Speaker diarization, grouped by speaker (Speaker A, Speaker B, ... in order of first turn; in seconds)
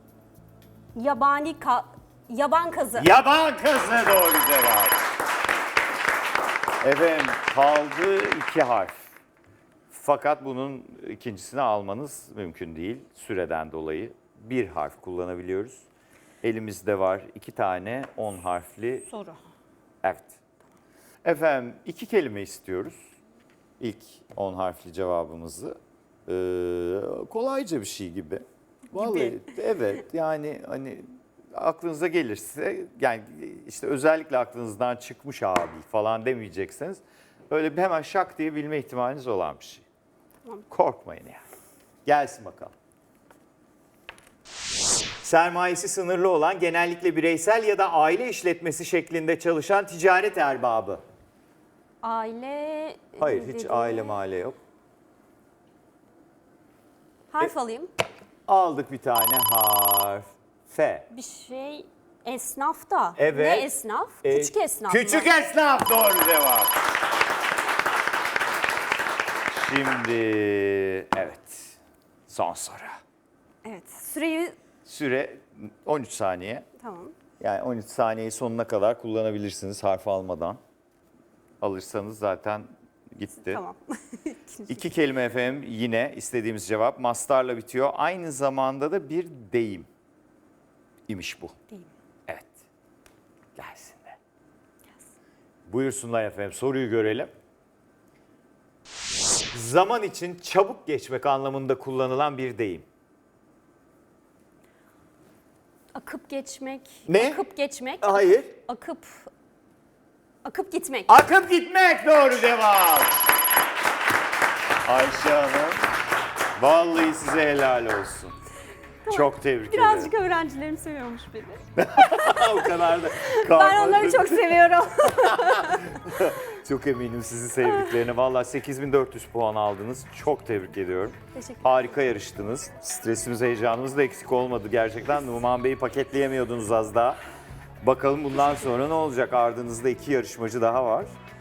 Speaker A: 0.9-3.1, 19.1-19.4, 28.9-29.4, 52.0-54.2, 57.3-57.9, 61.1-65.3, 73.7-74.6, 76.8-77.1, 83.3-84.9, 105.9-109.3, 110.4-111.2, 119.0-126.0, 127.6-127.9, 131.3-131.8, 138.4-138.7
Speaker B: 3.0-5.0, 6.8-9.0, 9.9-15.8, 16.4-19.1, 20.0-20.4, 21.2-23.0, 23.8-39.9, 40.7-41.4, 42.1-42.7, 45.2-51.0, 53.2-54.6, 58.5-61.1, 63.2-63.7, 64.2-66.7, 69.5-71.8, 72.3-73.0, 74.8-76.7, 77.4-80.6, 81.6-83.6, 84.7-89.9, 91.1-91.5, 92.3-92.6, 93.6-94.2, 95.7-97.3, 99.5-102.9, 107.1-107.4, 108.0-108.5, 111.1-113.2, 114.8-115.8, 116.6-118.3, 119.1-120.1, 121.8-137.2, 137.8-141.1